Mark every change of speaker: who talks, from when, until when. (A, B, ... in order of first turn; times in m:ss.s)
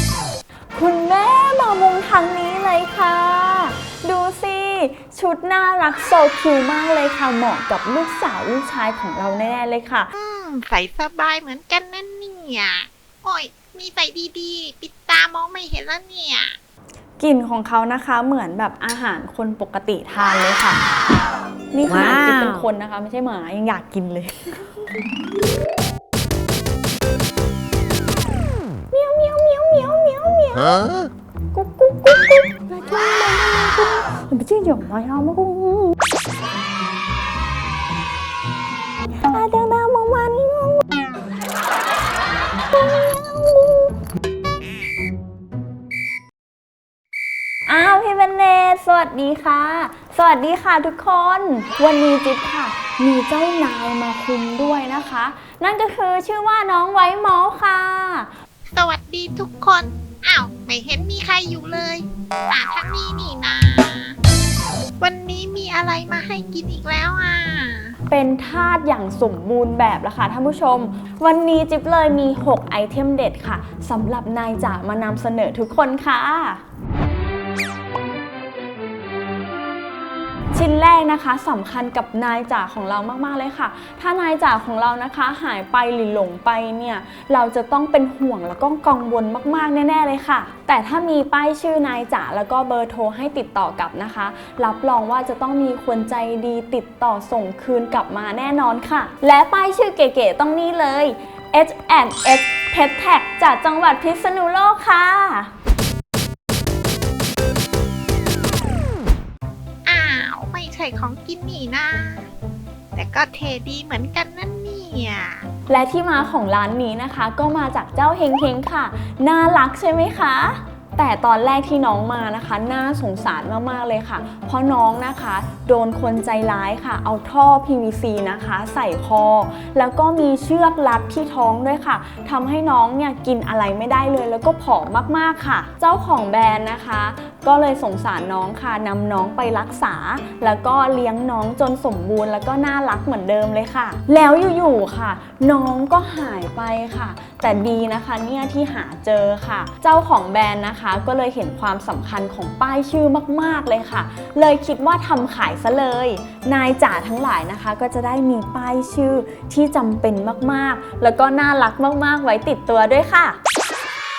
0:00.7-0:10.1 A
0:10.1-0:16.6 B
0:17.2-0:20.8 A
0:21.7-0:24.9 A
0:28.9-0:30.8 A
0:31.5-0:35.9 A
0:39.2-0:40.8 A
0:42.7-0:43.9 A
0:47.7-0:58.3 A
0:58.8-1:04.2 B
1:05.0-1:08.0 B
1:08.1-1:16.6 A
1:20.5-1:45.5 A
1:49.8-1:52.3 B
1:52.9-1:55.5 B
1:55.7-2:43.4 A